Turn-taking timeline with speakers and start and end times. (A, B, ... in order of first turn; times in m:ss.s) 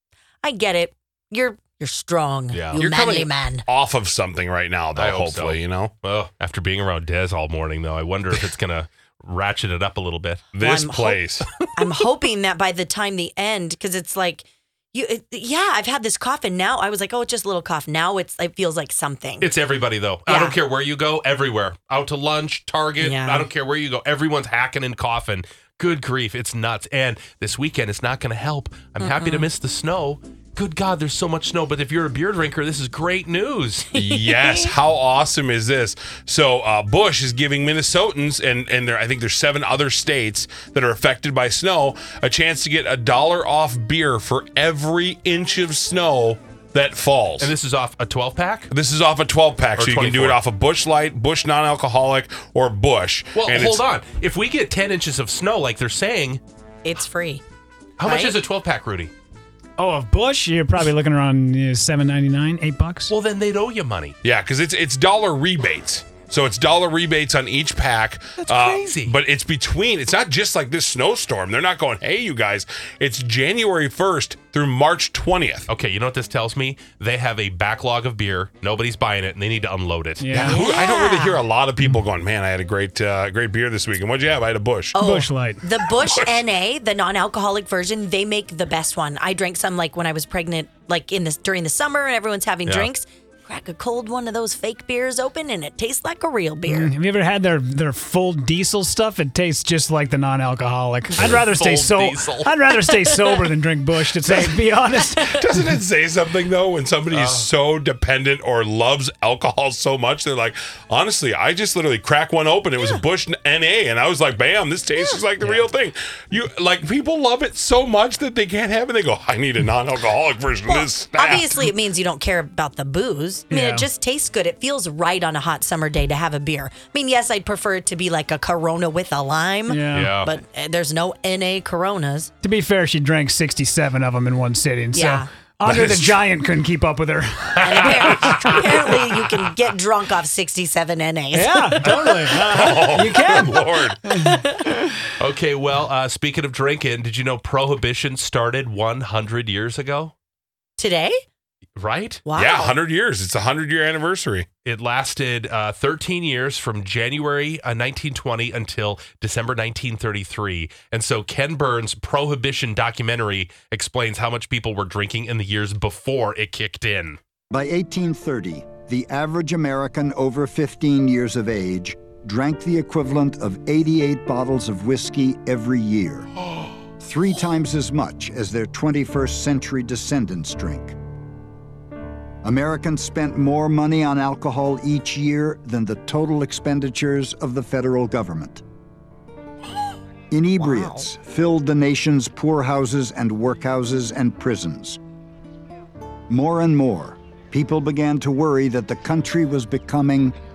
0:00.4-0:03.6 A
0:02.5-0:03.3 B
0:03.7-0:05.9 C
0:04.9-0:10.6 B
0:10.6-0:11.5 C
0:10.6-0:19.5 A
0:19.4-0:33.9 B
0:20.3-0:20.6 A
0:23.0-0:23.5 A
0:29.0-0:29.5 A
0:33.9-0:34.8 A
0:33.9-0:47.5 C
0:47.4-0:48.7 B
0:48.7-0:53.8 C
0:49.7-0:50.4 B
0:53.3-0:56.4 B
0:56.8-0:57.4 A
0:58.0-0:59.1 B
0:58.0-0:58.4 A
0:59.8-1:03.1 D
1:03.1-1:04.2 B
1:04.2-1:15.7 C
1:08.4-1:09.2 B
1:15.7-1:20.4 B
1:20.2-1:20.6 D
1:20.3-1:25.0 C
1:20.4-1:21.4 A
1:24.9-1:36.9 A
1:25.0-1:25.6 D
1:25.8-1:26.4 C
1:32.6-1:32.9 B
1:36.6-1:45.8 D
1:41.1-1:42.6 B
1:43.0-1:43.3 A
1:45.4-2:01.7 C
1:47.1-1:47.5 B
1:52.8-1:53.0 A
1:55.0-1:55.3 A
2:00.6-2:12.3 A
2:03.5-2:03.9 D
2:09.7-2:10.2 D
2:09.9-2:10.3 B
2:12.4-2:18.4 D
2:14.9-2:15.3 A
2:15.6-2:16.2 C
2:17.6-2:22.2 A
2:17.6-2:18.1 B
2:18.9-2:19.4 B
2:21.3-2:24.4 D
2:22.5-2:24.0 C
2:24.2-2:24.6 A
2:25.2-2:30.1 B
2:30.8-2:31.2 A
2:31.8-2:32.2 B
2:32.2-2:32.8 A
2:32.3-2:34.5 C
2:34.6-2:47.2 B
2:47.5-2:56.3 E
2:57.0-3:00.9 E
3:02.4-3:08.6 E
3:10.3-3:15.0 E
3:10.6-3:11.1 A
3:16.3-3:20.4 E